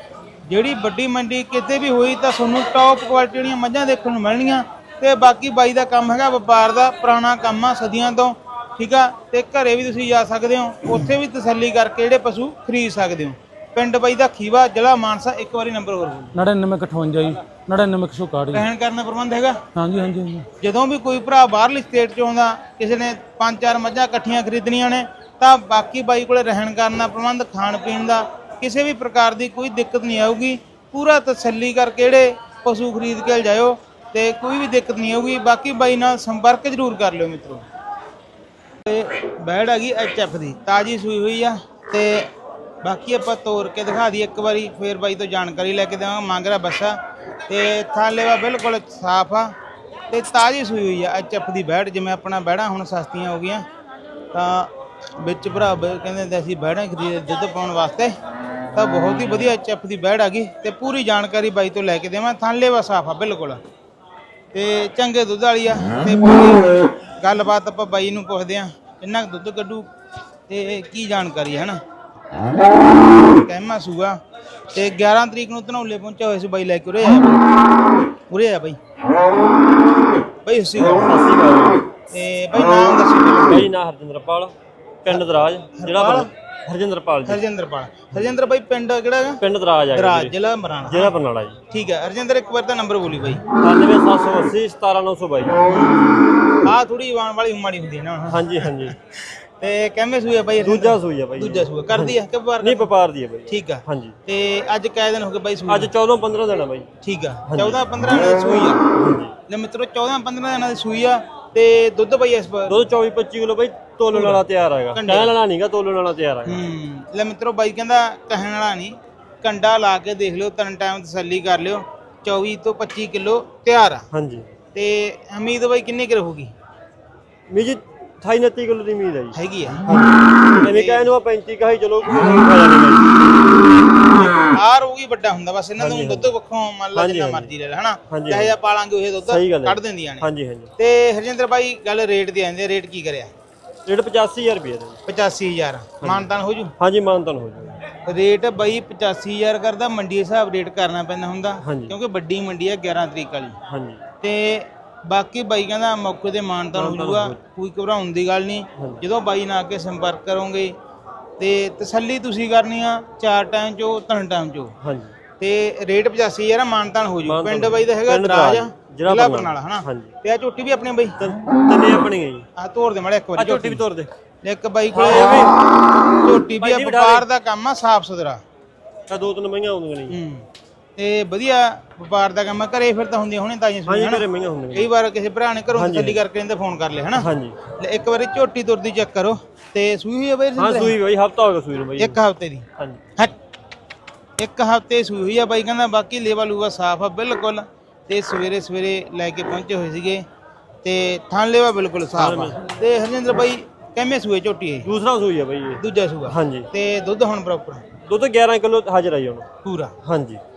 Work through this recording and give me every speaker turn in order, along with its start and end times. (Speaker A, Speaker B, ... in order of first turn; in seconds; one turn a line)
Speaker A: 0.5-16.3
Speaker B: 16.3-18.7
Speaker A: 18.5-19.6
Speaker B: 19.7-20.5
Speaker A: 20.6-37.6
Speaker A: 38.9-42.3
Speaker A: 42.8-47.0
Speaker A: 47.5-49.5
Speaker A: 50.1-53.6
Speaker A: 54.3-58.1
Speaker A: 58.7-63.6
Speaker A: 64.5-69.9
Speaker A: 70.5-71.8
Speaker A: 73.3-74.2
Speaker A: 74.7-77.4
Speaker A: 78.3-78.8
Speaker A: 80.4-81.1
Speaker C: 81.0-81.8
Speaker A: 82.1-83.7
Speaker C: 83.5-84.5
Speaker C: 85.0-87.4
Speaker A: 85.8-86.3
Speaker A: 87.2-89.4
Speaker C: 89.4-90.3
Speaker A: 89.9-91.1
Speaker C: 90.9-91.6
Speaker A: 91.7-93.4
Speaker C: 93.6-95.6
Speaker A: 95.7-102.9
Speaker C: 98.3-98.9
Speaker C: 100.6-104.2
Speaker A: 103.5-105.9
Speaker C: 105.7-106.9
Speaker A: 107.0-108.8
Speaker C: 107.5-107.8
Speaker C: 109.0-109.3
Speaker A: 109.5-112.8
Speaker C: 112.7-116.6
Speaker A: 114.1-114.4
Speaker A: 114.9-115.3
Speaker A: 116.5-124.0
Speaker C: 124.1-124.5
Speaker A: 124.7-126.5
Speaker C: 127.5-133.2
Speaker A: 129.3-129.8
Speaker A: 130.6-131.1
Speaker A: 134.5-140.2
Speaker C: 135.8-136.3
Speaker C: 136.9-137.5
Speaker C: 138.1-138.5
Speaker C: 139.3-140.7
Speaker A: 140.8-143.3
Speaker C: 143.8-145.0
Speaker A: 145.1-146.7
Speaker C: 146.0-146.3
Speaker C: 146.8-147.8
Speaker A: 148.1-153.6
Speaker C: 151.6-151.9
Speaker C: 153.7-154.0
Speaker A: 154.2-160.7
Speaker C: 156.7-157.4
Speaker C: 158.8-159.0
Speaker A: 161.4-164.7
Speaker C: 164.8-165.1
Speaker A: 165.4-171.2
Speaker C: 167.2-170.1
Speaker C: 171.2-172.4
Speaker A: 172.6-173.8
Speaker C: 173.4-174.1
Speaker A: 174.4-175.5
Speaker C: 174.9-175.5
Speaker A: 176.1-178.4
Speaker C: 176.6-177.2
Speaker C: 179.1-180.2
Speaker A: 180.1-180.4
Speaker A: 181.0-190.9
Speaker C: 183.8-184.9
Speaker C: 185.7-186.2
Speaker C: 187.2-187.6
Speaker C: 190.6-192.1
Speaker A: 192.0-192.7
Speaker A: 194.4-200.2
Speaker A: 200.8-204.9
Speaker C: 202.1-202.6
Speaker C: 204.8-206.7
Speaker A: 205.8-207.8
Speaker C: 208.1-209.5
Speaker A: 209.6-209.9
Speaker C: 210.0-210.4